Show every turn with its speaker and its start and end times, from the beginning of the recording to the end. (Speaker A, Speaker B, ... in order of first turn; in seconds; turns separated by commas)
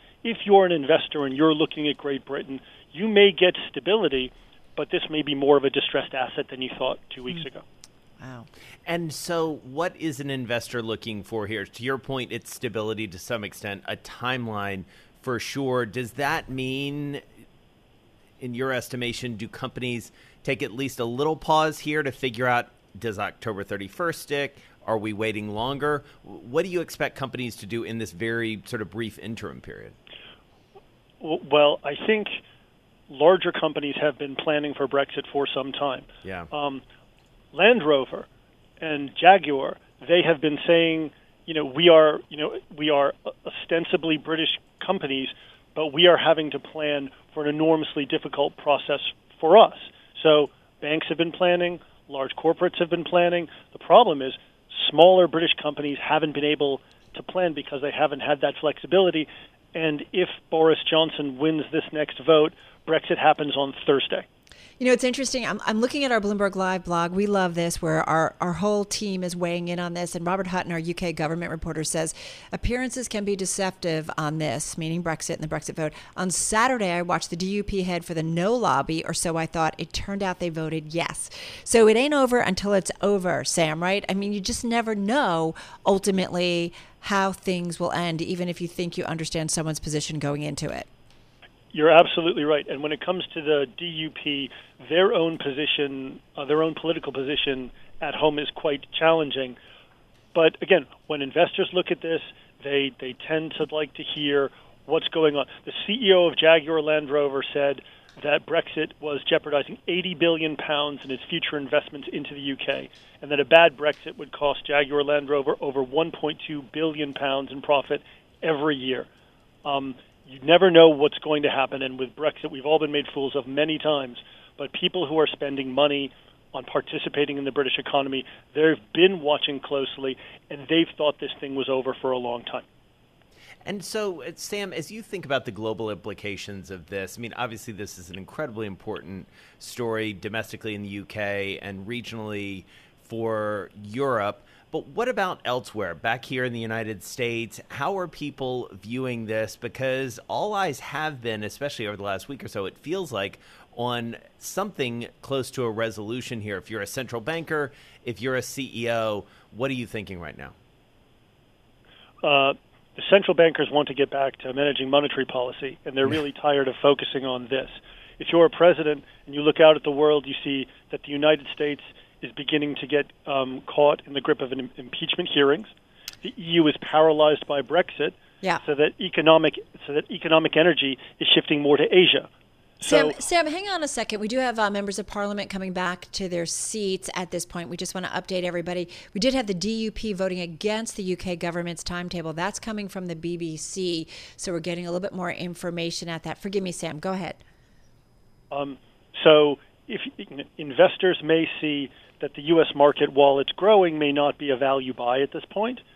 Speaker A: 0.2-7.6, Speaker B: 8.2-8.5, Speaker C: 8.8-17.2, Speaker C: 18.4-29.9, Speaker A: 31.2-32.4, Speaker A: 33.1-36.8, Speaker A: 37.5-38.3, Speaker A: 38.8-64.2, Speaker B: 64.8-90.9, Speaker A: 91.7-99.6, Speaker A: 100.3-119.1, Speaker A: 119.6-132.6, Speaker C: 133.6-160.5, Speaker A: 162.2-175.7, Speaker A: 176.2-182.3, Speaker A: 182.8-183.2, Speaker B: 182.8-197.4, Speaker A: 198.5-205.8